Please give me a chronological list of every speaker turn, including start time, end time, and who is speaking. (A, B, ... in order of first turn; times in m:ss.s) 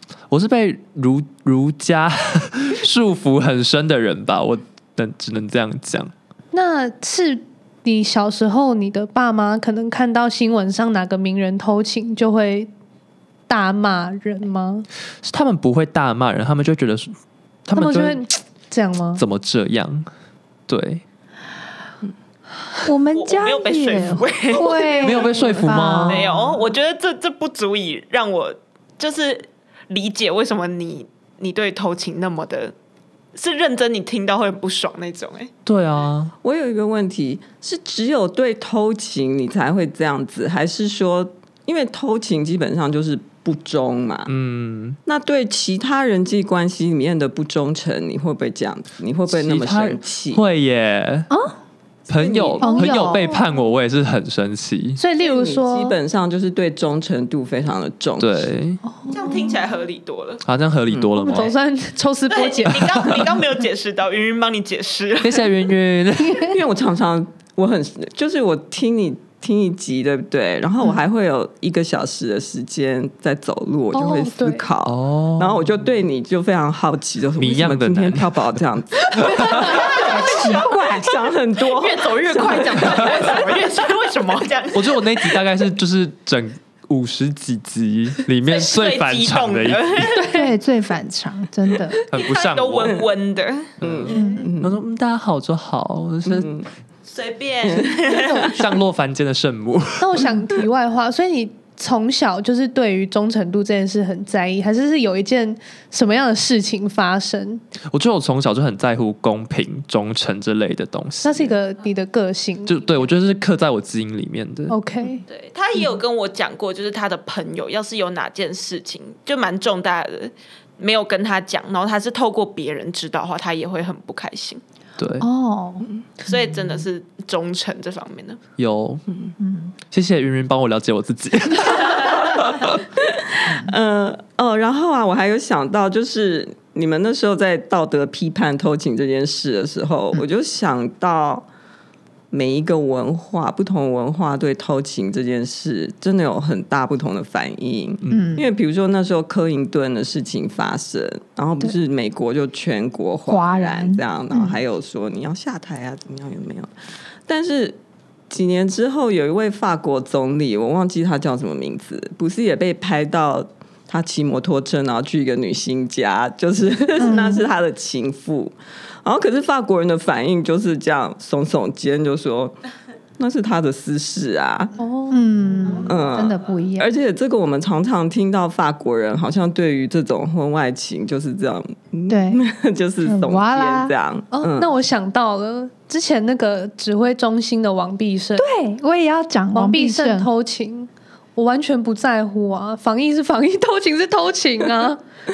0:00.3-0:06.1 A
0:06.5-0:12.7 B
0:13.5-0:14.9 B
0:15.2-0:17.1 A
0:17.6-0:18.2 A
0:17.7-0:19.2 B
0:19.2-0:20.1 A
0:20.7-0:21.0 A
0:22.8-0:26.3 C
0:23.1-0:32.7 D
0:25.0-0:26.4 A
0:33.4-0:35.5 D
0:35.6-0:36.3 A
0:36.4-0:44.3 E
0:44.3-0:45.0 A
0:45.0-0:50.4 E
0:49.3-0:51.3 A
0:51.3-0:51.6 C
0:52.1-0:55.0 A
0:52.1-0:53.1 E
0:52.6-0:53.4 C
0:55.0-0:56.0 B
0:55.2-0:58.5 E
0:58.2-0:58.8 A
0:59.0-0:59.6 C
0:59.1-1:00.4 D
1:00.4-1:01.5 A
1:01.2-1:03.1 B
1:02.3-1:05.5 D
1:02.8-1:03.3 A
1:05.2-1:06.6 A
1:06.4-1:23.3 E
1:13.9-1:14.6 B
1:14.9-1:15.6 A
1:17.4-1:18.6 A
1:19.1-1:19.8 A
1:19.3-1:21.1 C
1:19.5-1:25.4 D
1:22.8-1:23.3 A
1:24.7-1:30.2 A
1:28.5-1:30.4 D
1:30.3-1:32.0 C
1:32.1-1:33.0 A
1:32.1-1:34.4 D
1:33.8-1:36.6 A
1:33.8-1:34.8 E
1:34.1-1:34.5 C
1:36.3-1:36.6 E
1:37.1-1:38.6 D
1:37.6-1:38.5 E
1:38.3-1:40.2 A
1:40.0-1:47.6 B
1:47.9-1:51.6 A
1:51.2-1:53.0 B
1:52.6-1:54.8 A
1:54.7-1:55.2 B
1:55.3-2:04.6 D
2:05.0-2:05.3 A
2:05.2-2:05.9 C
2:06.2-2:08.4 D
2:08.6-2:09.0 A
2:09.1-2:09.4 E
2:09.4-2:09.7 C
2:09.9-2:12.8 A
2:13.1-2:21.5 E
2:22.3-2:36.7 E
2:28.1-2:28.3 A
2:28.1-2:28.5 C
2:33.3-2:34.6 C
2:37.3-2:37.8 E
2:38.3-2:52.6 E
2:47.0-2:47.5 C
2:53.2-2:54.7 E
2:54.8-2:55.9 B
2:55.1-2:56.9 C
2:55.8-3:04.7 E
3:02.1-3:02.4 C
3:03.0-3:03.9 C
3:04.3-3:08.5 B
3:08.4-3:10.3 C
3:09.5-3:15.0 B